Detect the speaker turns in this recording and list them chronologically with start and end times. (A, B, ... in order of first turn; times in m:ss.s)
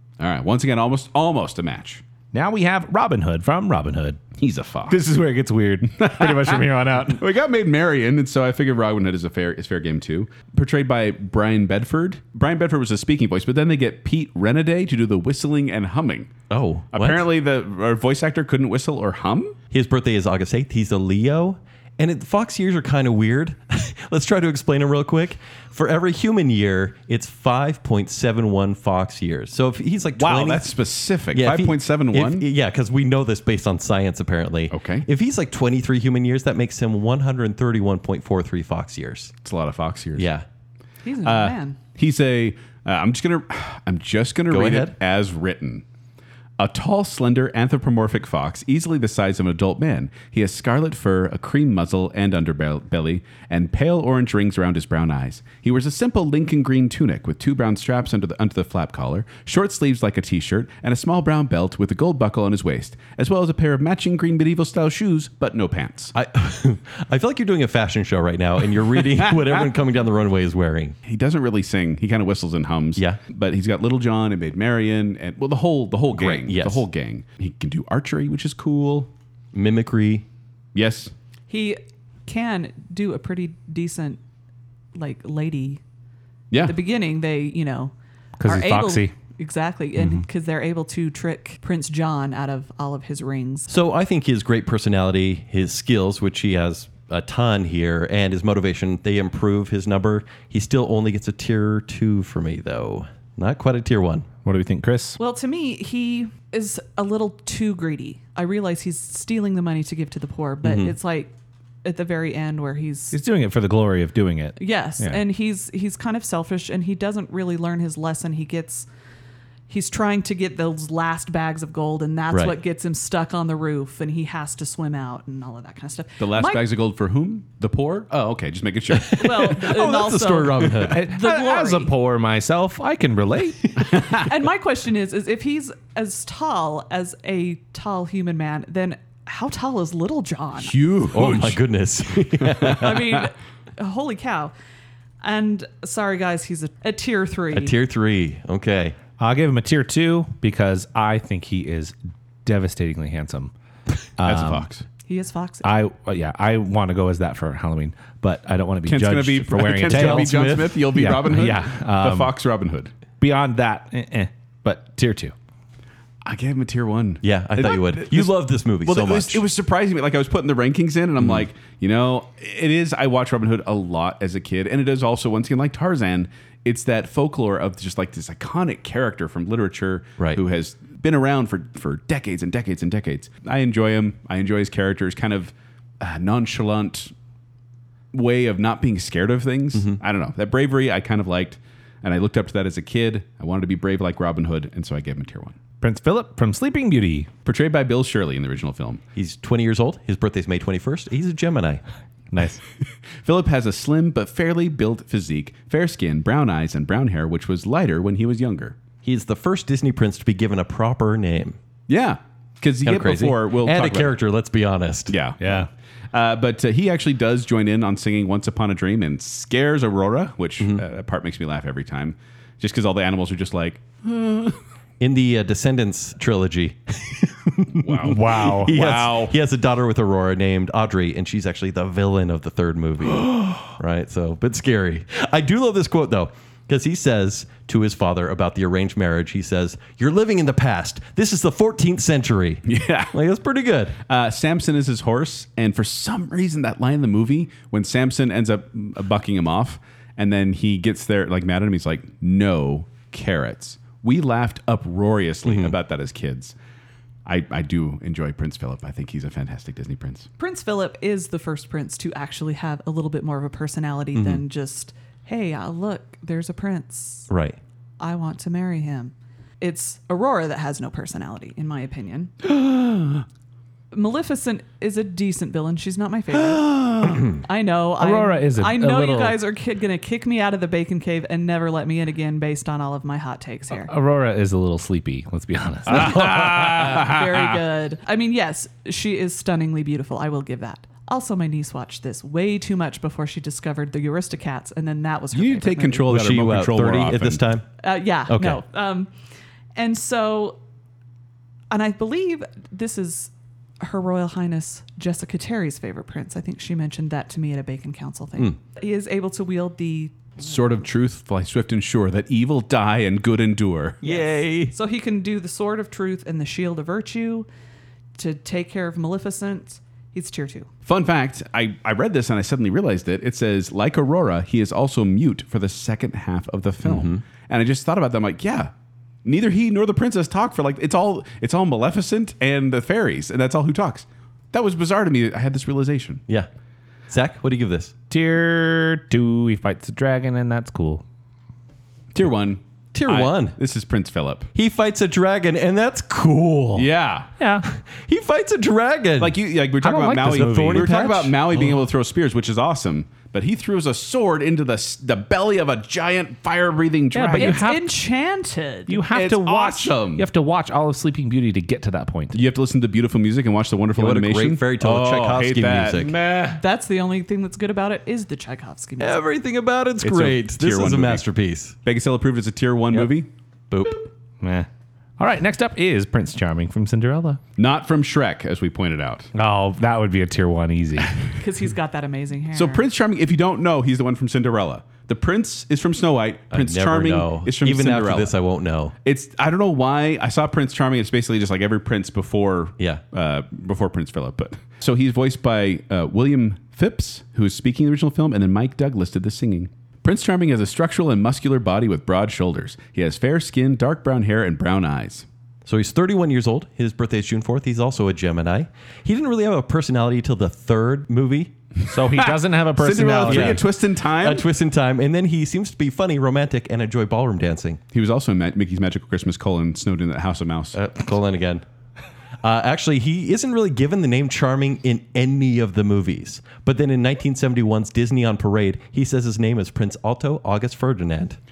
0:00.2-0:02.0 A
0:02.3-0:04.2 B
0:04.4-0:05.0 A
0:04.9-0:07.2 B
0:05.9-0:16.3 A
0:16.5-0:17.3 C
0:16.9-0:19.6 A
0:19.7-0:30.7 C
0:30.2-0:32.4 A
0:31.3-0:39.3 C
0:34.7-0:35.0 A
0:39.4-0:40.3 A
0:40.2-0:40.4 C
0:41.0-0:41.8 D
0:41.2-0:45.8 A
0:44.5-0:44.9 C
0:46.6-1:06.1 A
1:06.1-1:11.0 C
1:11.0-1:19.1 A
1:16.1-1:16.8 C
1:19.5-1:20.2 C
1:20.7-1:21.1 A
1:21.5-1:24.2 D
1:24.9-1:25.8 D
1:26.6-1:27.9 D
1:28.4-1:29.1 B
1:28.4-1:33.7 D
1:33.7-1:44.3 C
1:44.4-1:45.2 B
1:45.2-1:51.3 D
1:50.6-1:50.9 C
1:51.8-1:53.2 D
1:53.1-1:55.2 B
1:54.6-1:58.9 D
1:59.7-2:06.6 D
2:02.3-2:02.6 C
2:06.2-2:09.6 A
2:08.9-2:11.0 C
2:09.1-2:11.9 D
2:10.9-2:13.8 B
2:14.1-2:20.8 D
2:20.6-2:21.6 A
2:21.1-2:23.2 C
2:22.4-2:22.9 A
2:22.7-2:24.5 D
2:25.2-2:27.7 D
2:27.5-2:29.0 C
2:29.2-2:33.5 B
2:34.2-2:34.7 B
2:34.2-2:34.8 A
2:35.0-2:35.7 D
2:35.6-2:42.3 B
2:38.8-2:42.9 A
2:39.8-2:41.0 C
2:43.2-2:45.3 B
2:46.2-3:07.1 A
2:47.2-2:49.4 C
2:51.2-2:51.4 C
3:08.1-3:15.6 A
3:15.8-3:17.3 B
3:17.4-3:19.0 A
3:19.2-3:21.8 C
3:22.3-3:22.6 B
3:23.2-3:28.8 A
3:29.0-3:31.6 C
3:31.9-3:34.1 A
3:32.8-3:35.2 C
3:35.1-3:44.6 A
3:35.4-3:35.7 B
3:45.0-4:04.0 C
3:47.8-3:49.3 A
3:48.0-3:48.7 B
4:02.7-4:03.1 A
4:04.1-4:16.5 A
4:15.4-4:15.8 C
4:17.2-4:20.3 A
4:20.4-4:27.3 D
4:24.1-4:24.4 C
4:27.3-4:27.6 C
4:28.0-4:32.3 D
4:32.5-4:33.2 A
4:33.9-4:43.9 D
4:36.5-4:37.2 A
4:38.0-4:39.4 B
4:43.8-4:46.5 B
4:45.9-4:47.6 A
4:46.2-4:56.1 D
4:55.3-4:57.4 A
4:56.0-4:57.7 C
4:57.8-4:59.1 D
4:58.3-4:58.6 C
4:59.8-5:00.6 D
5:01.7-5:10.3 D
5:10.4-5:14.1 A
5:14.0-5:14.7 C
5:14.1-5:17.5 D
5:18.2-5:20.7 D
5:20.8-5:28.7 A
5:26.8-5:27.2 C
5:29.2-5:36.2 A
5:37.1-5:37.9 C
5:38.1-5:41.0 B
5:42.1-5:44.5 A
5:42.9-5:43.6 C
5:44.5-5:46.9 C
5:46.7-5:47.3 A
5:47.4-5:47.6 B
5:47.7-5:49.4 C
5:49.2-5:57.6 A
5:49.8-5:51.1 B
5:50.2-5:51.7 C
5:57.1-5:57.9 B
5:57.3-5:59.0 D
5:58.9-6:02.4 B
5:59.1-6:00.2 A
6:02.3-6:06.5 A
6:03.9-6:06.1 C
6:06.0-6:06.4 B
6:06.5-6:09.2 D
6:09.0-6:11.7 C
6:10.0-6:11.2 A
6:11.8-6:13.3 A
6:13.7-6:14.0 C
6:14.4-6:17.4 B
6:17.6-6:19.3 A
6:19.3-6:21.2 B
6:21.4-6:22.8 D
6:22.5-6:28.4 A
6:26.5-6:28.9 C
6:29.0-6:45.2 A
6:45.6-6:51.5 C
6:51.9-6:53.6 B
6:52.1-6:54.4 A
6:53.2-6:57.8 C
6:57.9-7:00.8 A
7:00.7-7:01.6 C
7:02.4-7:11.4 C